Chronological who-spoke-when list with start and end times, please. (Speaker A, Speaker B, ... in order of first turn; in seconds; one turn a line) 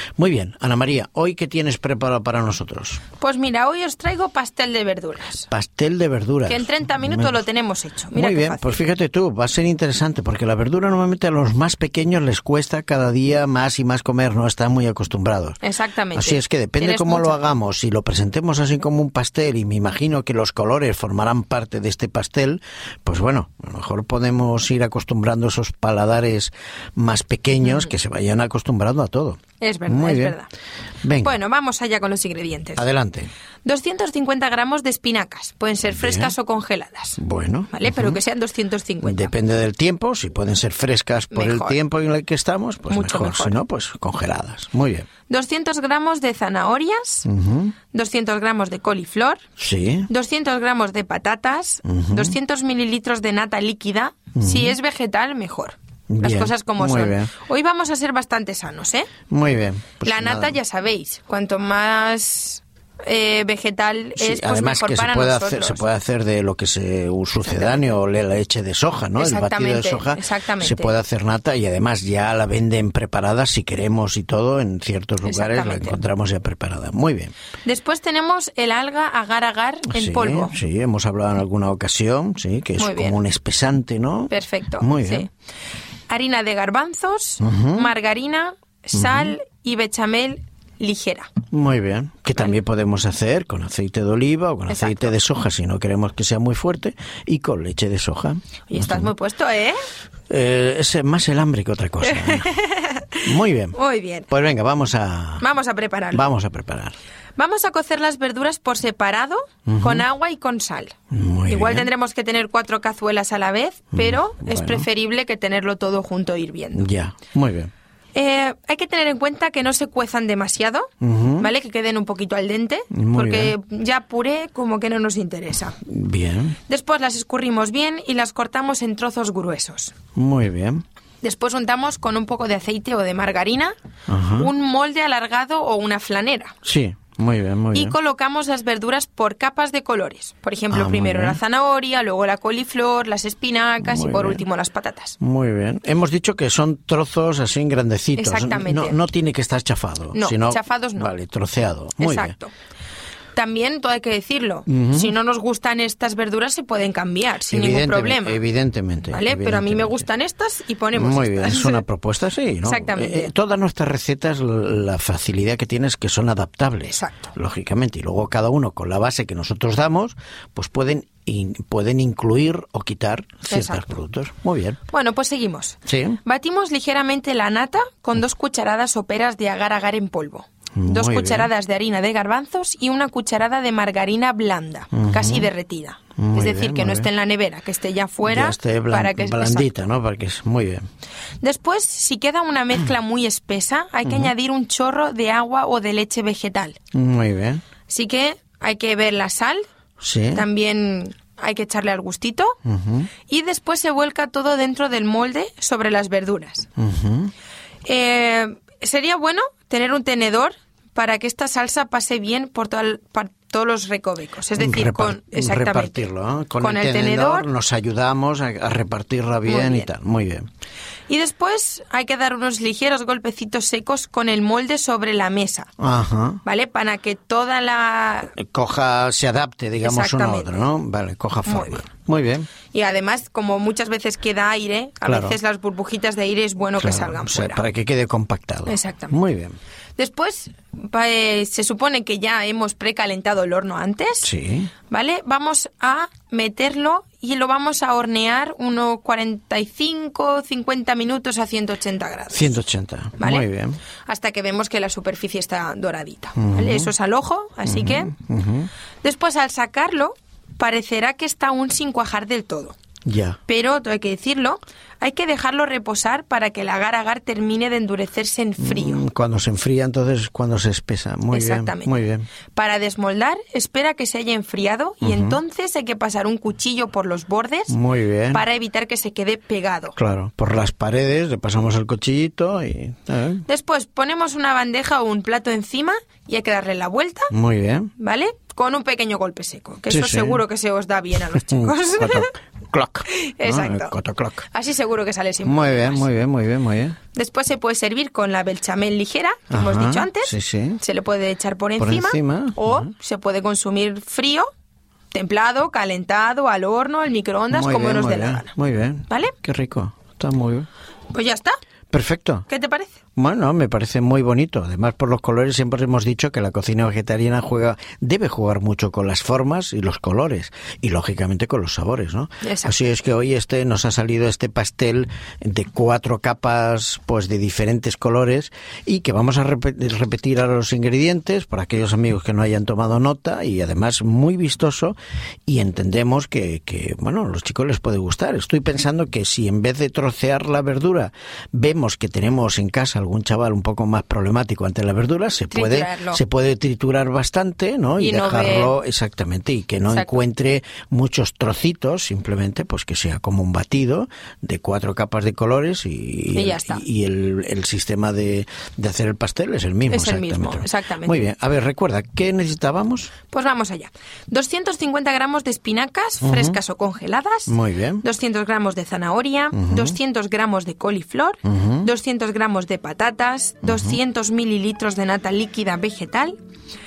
Speaker A: 0.2-3.0
Speaker B: 3.2-5.5
Speaker A: 5.5-7.4
Speaker B: 6.5-8.8
Speaker A: 8.1-15.6
Speaker B: 15.6-17.4
Speaker A: 16.1-30.4
Speaker B: 29.6-30.5
Speaker A: 31.0-31.3
Speaker B: 31.2-32.8
Speaker A: 32.8-33.3
Speaker B: 33.6-37.2
Speaker A: 35.9-36.3
Speaker A: 37.2-38.2
Speaker B: 37.7-39.3
Speaker A: 39.0-45.1
Speaker B: 41.3-41.8
Speaker B: 42.9-43.6
Speaker B: 45.3-47.3
Speaker A: 47.2-47.7
Speaker B: 47.9-49.4
Speaker A: 49.6-50.1
Speaker B: 50.1-59.1
Speaker A: 51.9-52.4
Speaker A: 54.4-54.8
Speaker A: 56.1-57.3
Speaker A: 59.3-60.6
Speaker B: 60.0-65.8
Speaker A: 64.2-77.3
Speaker B: 67.4-67.9
Speaker B: 69.2-70.9
Speaker B: 75.2-76.0
Speaker B: 77.6-80.5
Speaker A: 79.9-85.2
Speaker B: 82.8-83.2
Speaker B: 84.3-85.3
Speaker B: 86.1-91.3
Speaker A: 87.4-87.9
Speaker A: 88.9-89.3
Speaker A: 91.5-99.1
Speaker B: 94.7-95.1
Speaker B: 98.7-99.8
Speaker A: 100.3-102.5
Speaker B: 102.1-104.3
Speaker A: 103.2-103.8
Speaker A: 104.3-105.5
Speaker B: 105.4-106.2
Speaker A: 106.1-107.0
Speaker B: 107.4-111.0
Speaker A: 109.7-110.0
Speaker A: 111.1-111.9
Speaker B: 111.5-116.9
Speaker A: 113.9-114.9
Speaker A: 116.8-117.7
Speaker B: 118.1-125.8
Speaker A: 121.0-121.5
Speaker A: 122.9-123.5
Speaker A: 125.8-126.6
Speaker B: 126.7-130.0
Speaker A: 130.2-130.8
Speaker B: 131.2-133.7
Speaker A: 134.1-134.5
Speaker B: 134.4-136.5
Speaker A: 136.6-138.0
Speaker B: 137.7-145.2
Speaker A: 140.7-141.4
Speaker A: 143.8-144.4
Speaker A: 145.2-152.3
Speaker B: 148.2-149.0
Speaker B: 150.1-151.1
Speaker B: 152.0-152.5
Speaker B: 153.3-158.4
Speaker A: 154.7-155.1
Speaker A: 157.5-160.1
Speaker B: 159.1-161.8
Speaker A: 160.9-174.8
Speaker B: 162.6-163.3
Speaker B: 166.9-167.3
Speaker B: 173.5-173.9
Speaker B: 174.9-189.7
Speaker A: 175.9-176.2
Speaker A: 180.8-181.5
Speaker A: 184.9-185.5
Speaker A: 186.2-187.1
Speaker A: 188.2-190.8
Speaker B: 191.4-196.8
Speaker A: 194.0-194.3
Speaker A: 196.9-197.6
Speaker B: 197.9-199.7
Speaker A: 200.0-200.5
Speaker B: 200.3-202.6
Speaker A: 202.7-203.1
Speaker B: 203.3-206.7
Speaker A: 206.8-207.3
Speaker B: 207.8-216.1
Speaker A: 214.6-220.5
Speaker B: 216.6-217.5
Speaker B: 219.4-219.9
Speaker B: 221.1-225.7
Speaker A: 225.8-226.4
Speaker B: 226.4-228.3
Speaker A: 228.3-232.5
Speaker B: 229.8-230.6
Speaker B: 231.5-231.9
Speaker B: 232.7-237.6
Speaker A: 235.0-235.4
Speaker A: 236.8-239.6
Speaker B: 238.7-239.2
Speaker B: 240.0-244.3
Speaker A: 244.2-244.7
Speaker B: 244.9-252.5
Speaker A: 252.3-253.8
Speaker B: 253.2-253.5
Speaker B: 254.1-258.1
Speaker A: 256.4-256.9
Speaker A: 257.6-258.7
Speaker B: 259.0-262.8
Speaker A: 263.1-263.4
Speaker B: 263.5-269.0
Speaker A: 268.6-272.2
Speaker B: 271.3-272.0
Speaker B: 272.5-277.8
Speaker A: 275.0-275.4
Speaker A: 277.7-278.4
Speaker B: 278.3-280.0
Speaker A: 280.0-283.4
Speaker B: 283.5-287.3
Speaker A: 287.3-287.9
Speaker B: 288.0-292.3
Speaker A: 289.9-290.4
Speaker A: 291.3-294.5
Speaker B: 293.1-293.9
Speaker B: 294.5-296.1
Speaker A: 295.4-297.0
Speaker B: 297.1-304.5
Speaker A: 299.5-300.8
Speaker A: 301.8-302.9
Speaker B: 305.1-308.5
Speaker A: 307.5-310.7
Speaker B: 309.1-309.3
Speaker B: 311.1-311.6
Speaker A: 311.9-312.5
Speaker B: 312.5-313.0
Speaker A: 313.1-363.1
Speaker B: 322.4-322.7
Speaker B: 345.5-346.2
Speaker B: 348.0-348.7
Speaker B: 349.9-350.2
Speaker B: 356.3-356.8
Speaker B: 359.9-361.2
Speaker B: 363.3-376.4
Speaker A: 366.2-366.6
Speaker A: 367.5-368.0
Speaker A: 369.5-369.9
Speaker A: 371.4-371.9
Speaker A: 373.6-374.0